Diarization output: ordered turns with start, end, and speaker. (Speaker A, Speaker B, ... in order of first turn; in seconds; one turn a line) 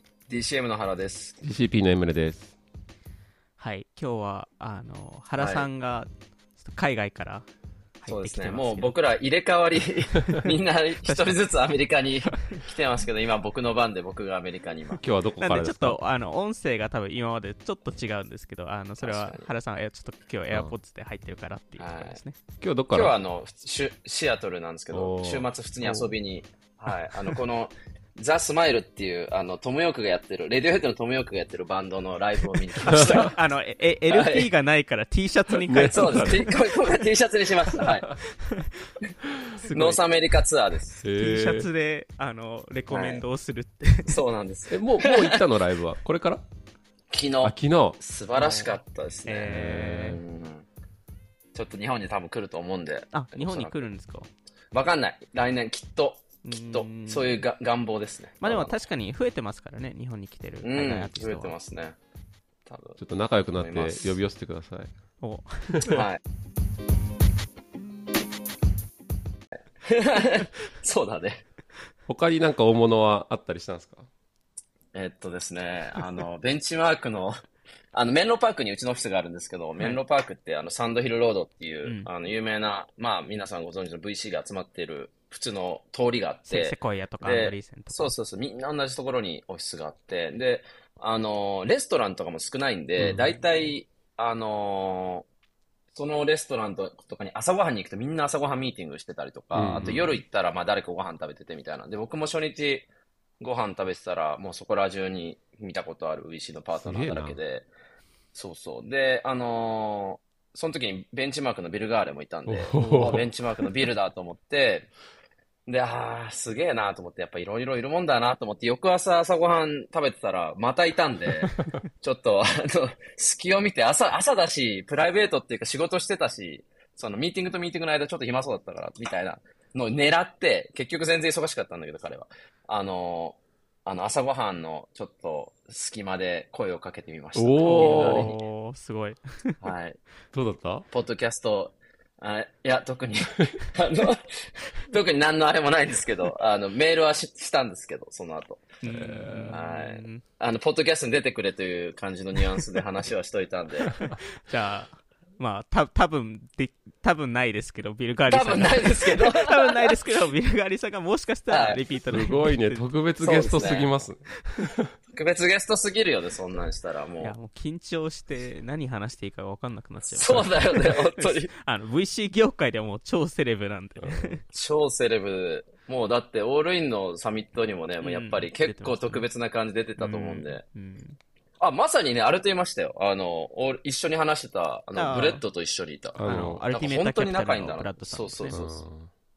Speaker A: 0.3-1.4
Speaker B: 1.4-2.5
Speaker C: 3.6-7.5
Speaker A: 5.4-5.7
Speaker C: 8.0-8.9
Speaker A: 8.1-15.0
Speaker C: 11.1-11.4
Speaker B: 15.0-16.0
Speaker C: 15.4-22.4
Speaker A: 19.0-19.5
Speaker A: 21.8-22.2
Speaker B: 22.6-23.2
Speaker A: 22.9-33.4
Speaker B: 24.9-25.5
Speaker C: 32.8-37.0
Speaker B: 32.9-33.3
Speaker A: 34.1-34.5
Speaker B: 35.7-36.5
Speaker A: 35.9-38.1
Speaker C: 38.3-38.9
Speaker B: 39.3-39.5
Speaker C: 39.6-40.0
Speaker A: 39.7-41.0
Speaker B: 41.0-41.7
Speaker C: 41.2-44.2
Speaker A: 42.9-43.2
Speaker A: 44.1-45.5
Speaker B: 44.7-46.4
Speaker A: 47.1-49.6
Speaker B: 47.4-48.0
Speaker C: 48.4-50.2
Speaker B: 49.5-50.2
Speaker A: 50.1-50.7
Speaker A: 51.5-53.9
Speaker C: 53.1-54.3
Speaker A: 54.7-58.8
Speaker C: 56.4-57.4
Speaker C: 58.4-61.5
Speaker A: 60.6-62.0
Speaker A: 62.7-63.0
Speaker B: 63.0-64.9
Speaker A: 63.5-64.2
Speaker C: 65.2-66.0
Speaker A: 65.9-66.2
Speaker A: 69.8-71.4
Speaker B: 72.1-74.1
Speaker A: 74.9-77.4
Speaker A: 77.9-95.3
Speaker C: 81.8-82.1
Speaker C: 86.5-88.1
Speaker B: 93.0-93.3
Speaker A: 95.9-102.9
Speaker B: 99.5-100.2
Speaker A: 103.4-107.7
Speaker B: 106.7-107.4
Speaker A: 108.3-114.9
Speaker B: 112.5-113.7
Speaker A: 115.7-138.4
Speaker B: 137.3-138.3
Speaker C: 137.7-139.6
Speaker A: 139.6-140.0
Speaker B: 140.3-140.9
Speaker A: 140.9-148.7
Speaker C: 148.8-150.2
Speaker B: 148.9-149.6
Speaker A: 149.5-154.0
Speaker C: 154.0-162.9
Speaker A: 158.3-160.0
Speaker A: 161.5-161.8
Speaker B: 162.1-164.9
Speaker A: 163.2-164.1
Speaker A: 165.1-167.3
Speaker C: 167.2-174.4
Speaker A: 170.1-171.5
Speaker B: 174.0-174.4
Speaker A: 174.5-180.6
Speaker C: 178.0-179.3
Speaker C: 180.0-181.2
Speaker A: 181.6-188.8
Speaker C: 184.9-185.4
Speaker B: 186.2-186.6
Speaker C: 186.2-188.6
Speaker B: 188.5-189.1